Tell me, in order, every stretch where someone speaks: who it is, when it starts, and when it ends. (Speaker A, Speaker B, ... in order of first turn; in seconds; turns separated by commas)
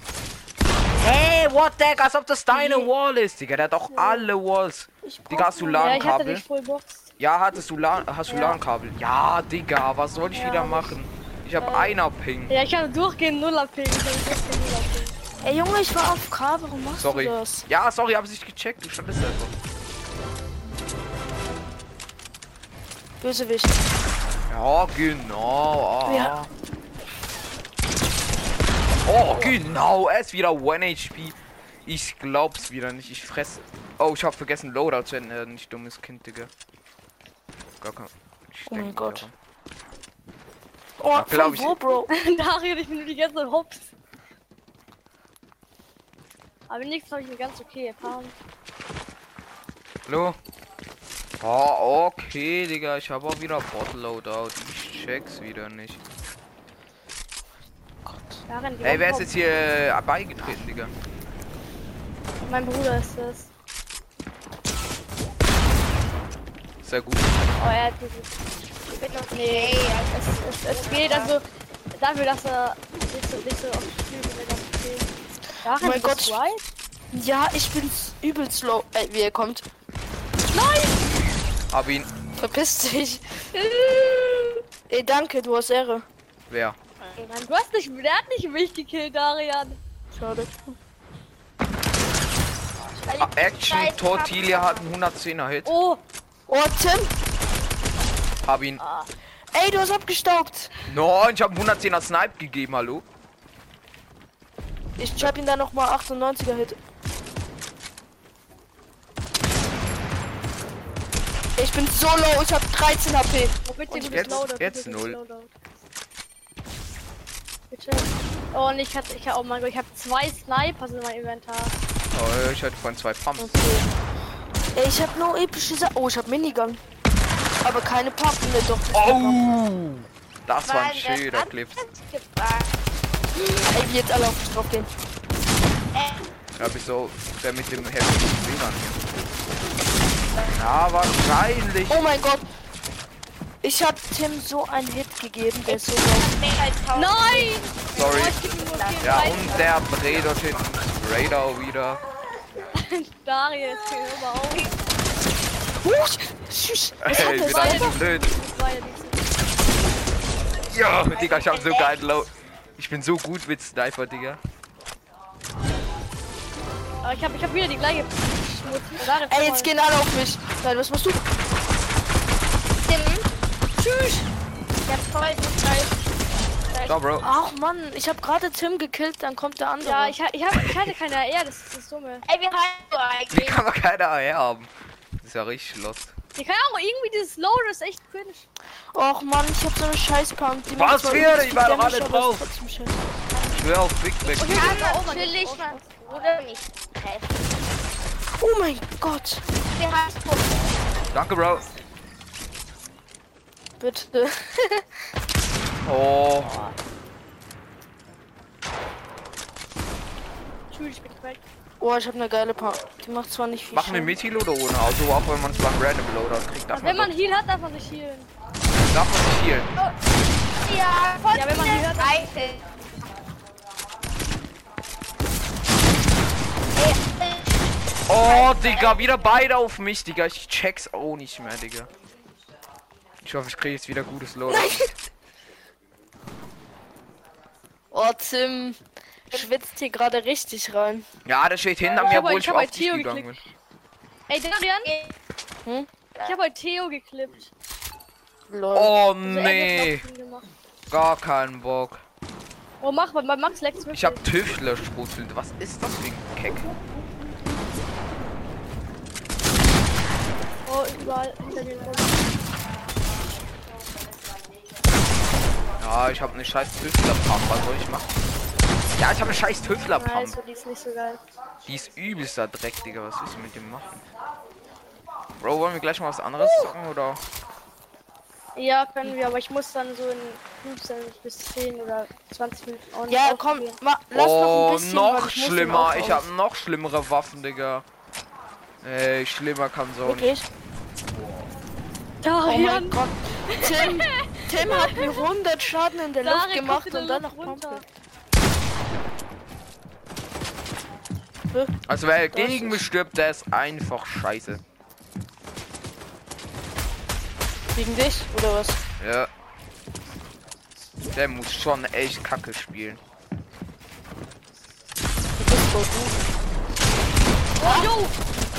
Speaker A: 1.0-6.4, Speaker B: 3.9-4.2, Speaker B: 5.0-6.1, Speaker C: 5.8-7.1, Speaker A: 7.2-12.6, Speaker C: 8.3-8.6, Speaker C: 10.3-10.9, Speaker B: 11.6-12.0, Speaker C: 12.5-15.2, Speaker B: 15.4-17.6, Speaker A: 16.9-19.5, Speaker B: 23.2-23.8, Speaker A: 24.5-26.5, Speaker B: 26.1-26.3, Speaker A: 29.1-36.5, Speaker A: 37.8-39.3, Speaker B: 38.7-39.3, Speaker B: 41.0-42.1, Speaker A: 41.1-41.8, Speaker C: 42.1-43.9, Speaker C: 46.7-48.3, Speaker A: 50.1-50.4, Speaker A: 51.4-56.0, Speaker B: 58.0-58.4, Speaker C: 58.5-59.3, Speaker A: 58.8-60.9, Speaker C: 62.4-63.5, Speaker A: 66.8-67.3, Speaker C: 67.6-68.3, Speaker D: 68.9-71.4, Speaker C: 69.3-75.1, Speaker C: 75.6-76.7, Speaker B: 75.8-76.4, Speaker B: 77.1-79.6, Speaker C: 80.5-81.1, Speaker A: 81.7-82.1, Speaker B: 82.3-86.0, Speaker A: 86.5-86.8, Speaker C: 87.2-89.8, Speaker B: 90.1-90.8, Speaker D: 93.0-94.8, Speaker A: 93.2-95.7, Speaker C: 95.6-96.0, Speaker B: 96.5-97.1, Speaker A: 98.4-98.8, Speaker C: 98.8-99.1, Speaker B: 99.5-100.7, Speaker A: 100.9-103.0, Speaker B: 105.0-106.8, Speaker B: 111.6-114.4, Speaker C: 113.6-115.5, Speaker A: 114.1-115.2, Speaker C: 117.7-121.7, Speaker A: 122.1-123.6, Speaker B: 123.4-123.9, Speaker B: 124.7-126.8, Speaker B: 127.6-129.5, Speaker A: 128.9-131.8, Speaker D: 130.6-132.8, Speaker B: 133.3-134.9, Speaker D: 135.9-136.3, Speaker A: 136.6-138.9, Speaker A: 140.5-142.0, Speaker B: 141.9-142.4, Speaker B: 143.6-146.3, Speaker D: 145.7-149.7, Speaker C: 146.9-149.7, Speaker A: 147.9-148.4, Speaker A: 149.0-152.0, Speaker C: 152.7-154.7, Speaker B: 155.8-157.9, Speaker A: 157.0-158.3, Speaker C: 157.1-159.3, Speaker A: 160.7-164.4, Speaker D: 161.1-161.9, Speaker C: 167.0-169.7, Speaker B: 169.3-171.2, Speaker D: 172.8-173.2, Speaker C: 173.8-174.3, Speaker D: 174.8-176.0, Speaker D: 176.7-177.0, Speaker A: 176.8-177.2, Speaker B: 177.2-180.1, Speaker C: 179.8-182.2, Speaker D: 182.3-183.6, Speaker A: 183.3-186.2, Speaker C: 186.3-188.4, Speaker B: 188.9-193.0, Speaker A: 190.7-192.4, Speaker D: 193.3-193.6, Speaker A: 193.5-194.8, Speaker D: 194.2-197.4, Speaker C: 194.4-195.8, Speaker B: 198.4-199.4, Speaker D: 199.6-200.8, Speaker A: 201.1-201.7, Speaker B: 203.8-204.8, Speaker A: 205.8-206.6, Speaker C: 206.4-206.8, Speaker C: 210.7-211.4, Speaker B: 211.8-214.1, Speaker A: 213.7-217.1, Speaker C: 216.7-218.3, Speaker A: 218.9-219.7, Speaker D: 220.5-222.7, Speaker C: 221.3-222.3, Speaker D: 226.7-229.2, Speaker A: 228.1-231.9, Speaker A: 233.2-234.9, Speaker B: 234.5-234.9, Speaker B: 237.9-238.8, Speaker B: 239.3-241.1, Speaker A: 241.2-243.4, Speaker C: 241.9-243.3, Speaker C: 244.3-244.9, Speaker D: 244.8-245.2, Speaker C: 246.2-247.5, Speaker B: 248.5-248.9, Speaker A: 248.7-250.0, Speaker C: 249.2-250.5, Speaker A: 250.9-252.0, Speaker C: 252.8-254.2, Speaker A: 253.9-256.7, Speaker C: 260.6-262.3, Speaker A: 265.8-268.1, Speaker A: 268.8-270.4, Speaker C: 269.9-271.2, Speaker A: 271.6-274.0, Speaker A: 275.4-277.2, Speaker C: 278.6-283.8, Speaker B: 283.1-286.2, Speaker A: 284.1-287.9, Speaker A: 288.8-290.3, Speaker B: 290.0-290.4, Speaker C: 292.2-295.3, Speaker B: 292.4-297.8, Speaker C: 296.2-297.8, Speaker A: 301.9-304.6, Speaker B: 302.3-302.8, Speaker B: 307.7-308.8, Speaker A: 309.0-309.3, Speaker A: 311.1-313.0, Speaker B: 315.4-316.1, Speaker C: 317.6-318.1, Speaker B: 317.6-317.9